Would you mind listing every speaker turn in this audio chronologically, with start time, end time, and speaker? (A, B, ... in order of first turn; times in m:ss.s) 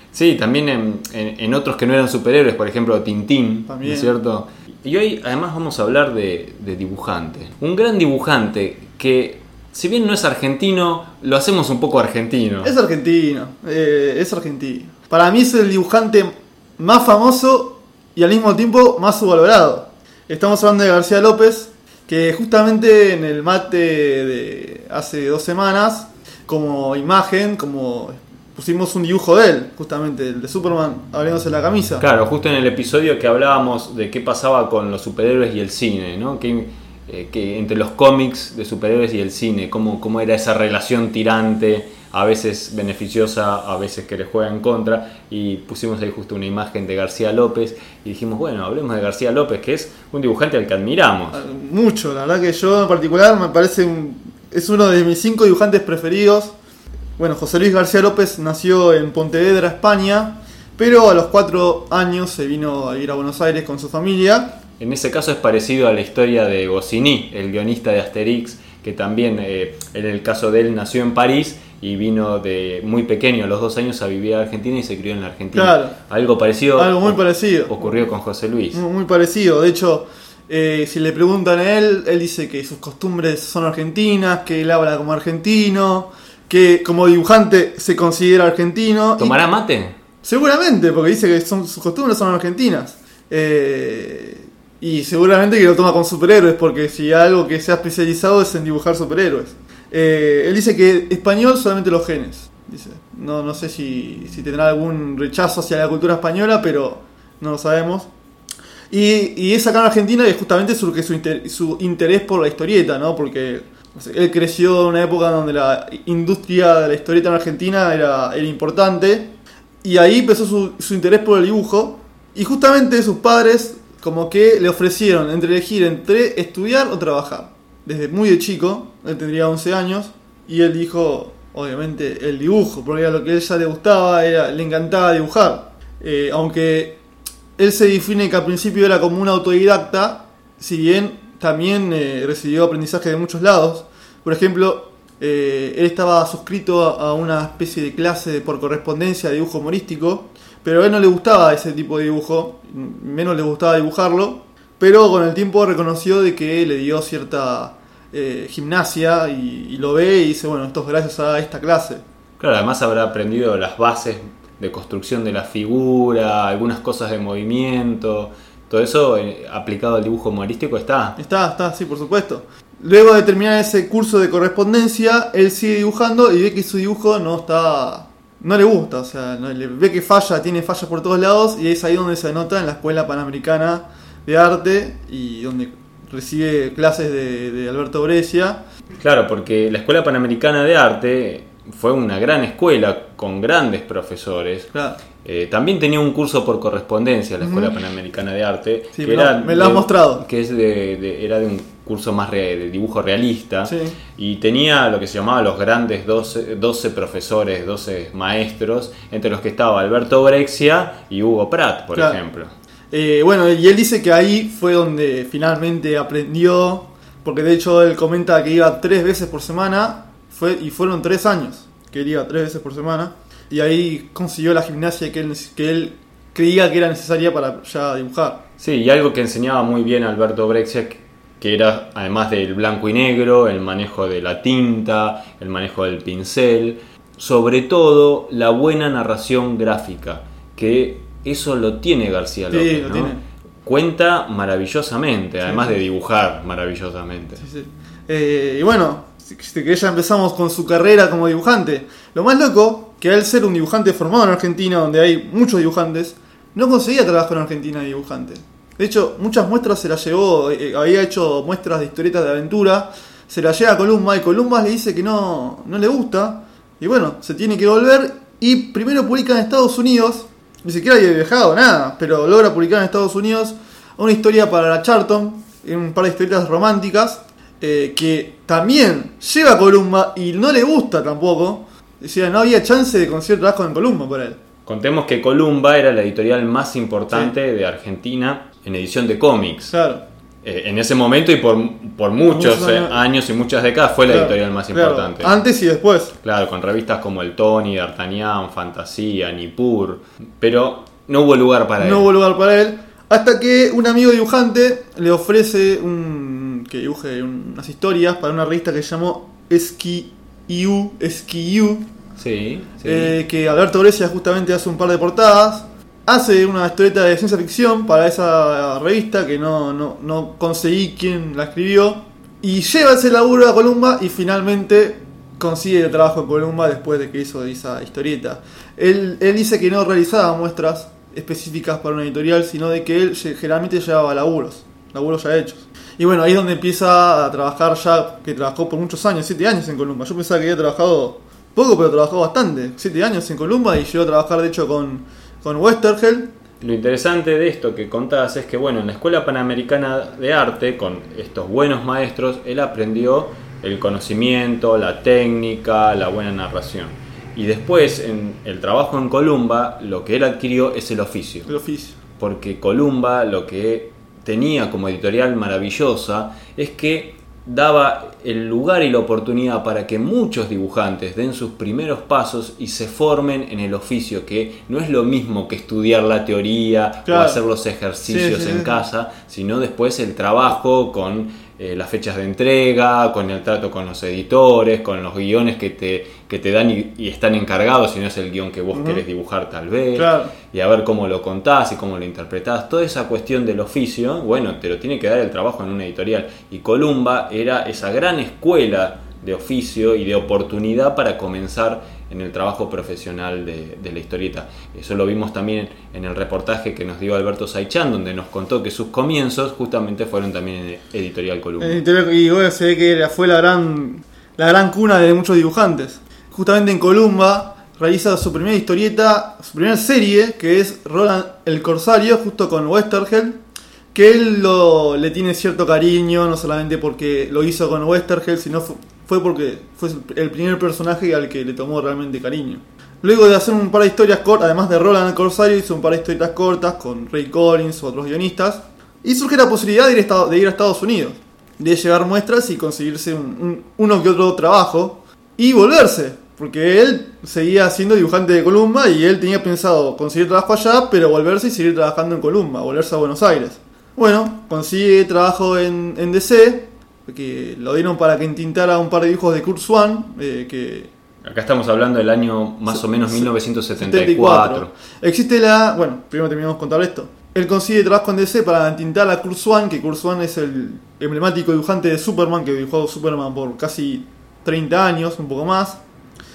0:00.1-0:12.7 A
0:03.7-0:04.1 B
0:12.6-0:32.0 B
0:32.0-0:51.4 A
0:51.3-0:56.5 B
0:57.2-1:04.6 B
1:04.8-1:18.8 A
1:15.5-1:15.9 B
1:16.7-1:17.9 B
1:18.7-1:29.4 B
1:29.2-1:30.0 A
1:30.2-1:48.1 B
1:48.9-2:17.0 B
2:17.6-2:42.0 B
2:42.4-2:51.2 A
2:51.2-3:08.6 B
3:09.0-3:14.7 A
3:14.7-3:15.0 B
3:15.2-3:32.5 A
3:17.4-3:17.8 B
3:18.9-3:20.2 B
3:23.6-3:24.0 B
3:31.9-3:32.2 B
3:32.9-3:48.4 B
3:48.6-4:07.4 A
4:02.5-4:03.2 B
4:05.4-4:05.8 B
4:07.4-4:44.4 B
4:44.6-4:49.7 A
4:49.7-4:50.0 B
4:50.4-4:55.4 A
4:52.2-4:53.0 B
4:54.1-4:56.1 B
4:56.2-5:02.1 A
5:01.8-5:11.9 B
5:12.2-5:13.2 A
5:12.8-5:46.3 B
5:46.6-6:01.5 A
6:01.5-6:02.0 B
6:02.2-6:51.8 A
6:17.0-6:17.4 B
6:18.0-6:18.8 B
6:28.7-6:29.0 B
6:29.9-6:30.3 B
6:51.6-7:03.4 B
7:03.9-7:40.9 B
7:41.2-7:44.7 A
7:42.7-7:55.8 B